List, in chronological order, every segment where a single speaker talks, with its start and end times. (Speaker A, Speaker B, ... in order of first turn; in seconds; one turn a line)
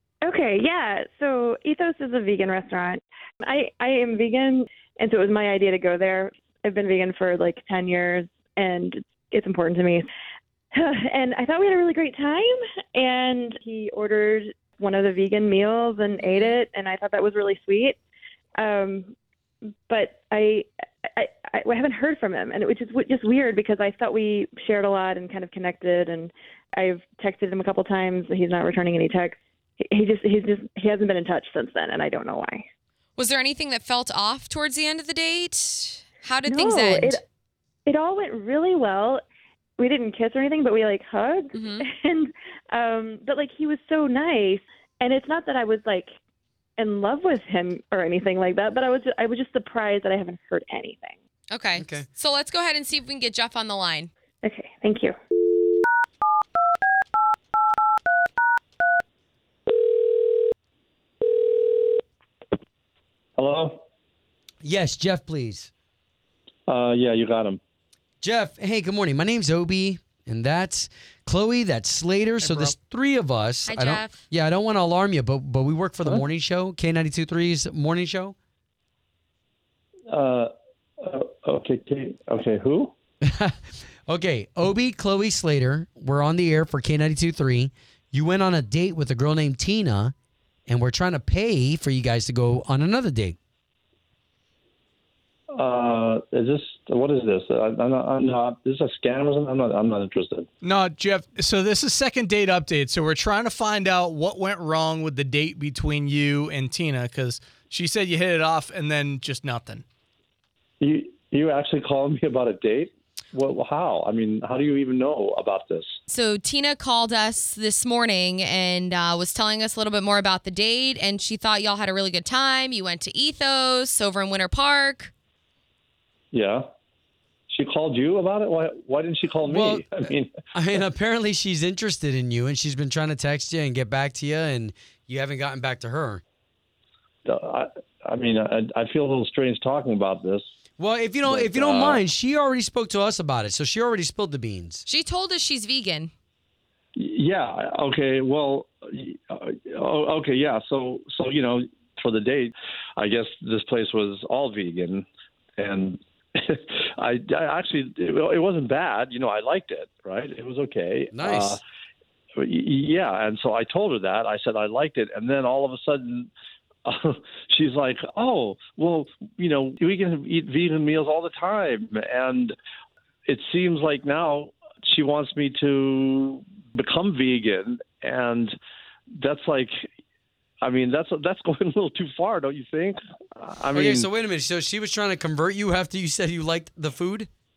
Speaker A: 0.2-10.1
Speaker A: 10.7-18.0
Speaker B: 16.2-16.6
Speaker A: 18.6-19.1
Speaker A: 19.9-32.7
Speaker B: 33.2-37.2
Speaker A: 36.5-37.2
Speaker A: 37.9-39.2
Speaker A: 39.8-46.1
Speaker B: 41.5-41.9
Speaker A: 46.8-51.1
Speaker B: 51.5-54.1
Speaker C: 51.8-52.1
Speaker A: 54.4-55.1
Speaker D: 63.4-63.8
Speaker C: 64.6-65.7
Speaker D: 66.7-67.6
Speaker C: 68.2-78.3
Speaker E: 72.4-72.7
Speaker B: 73.7-74.2
Speaker D: 80.1-82.9
Speaker C: 83.2-83.6
Speaker C: 84.1-90.1
Speaker C: 90.7-93.4
Speaker D: 95.5-100.5
Speaker E: 100.6-109.8
Speaker D: 110.8-116.0
Speaker B: 116.1-125.1
Speaker D: 126.3-126.7
Speaker D: 127.5-130.3
Speaker C: 129.4-129.9
Speaker C: 130.5-136.2
Speaker D: 137.2-140.5
Speaker C: 140.8-144.8
Speaker D: 141.2-142.0
Speaker B: 144.9-146.1
Speaker D: 146.9-155.1
Speaker D: 155.6-161.6
Speaker C: 161.1-161.6
Speaker D: 162.4-166.3
Speaker D: 166.9-172.6
Speaker D: 173.3-178.5
Speaker D: 179.1-179.8
Speaker D: 180.6-184.1
Speaker C: 183.7-187.3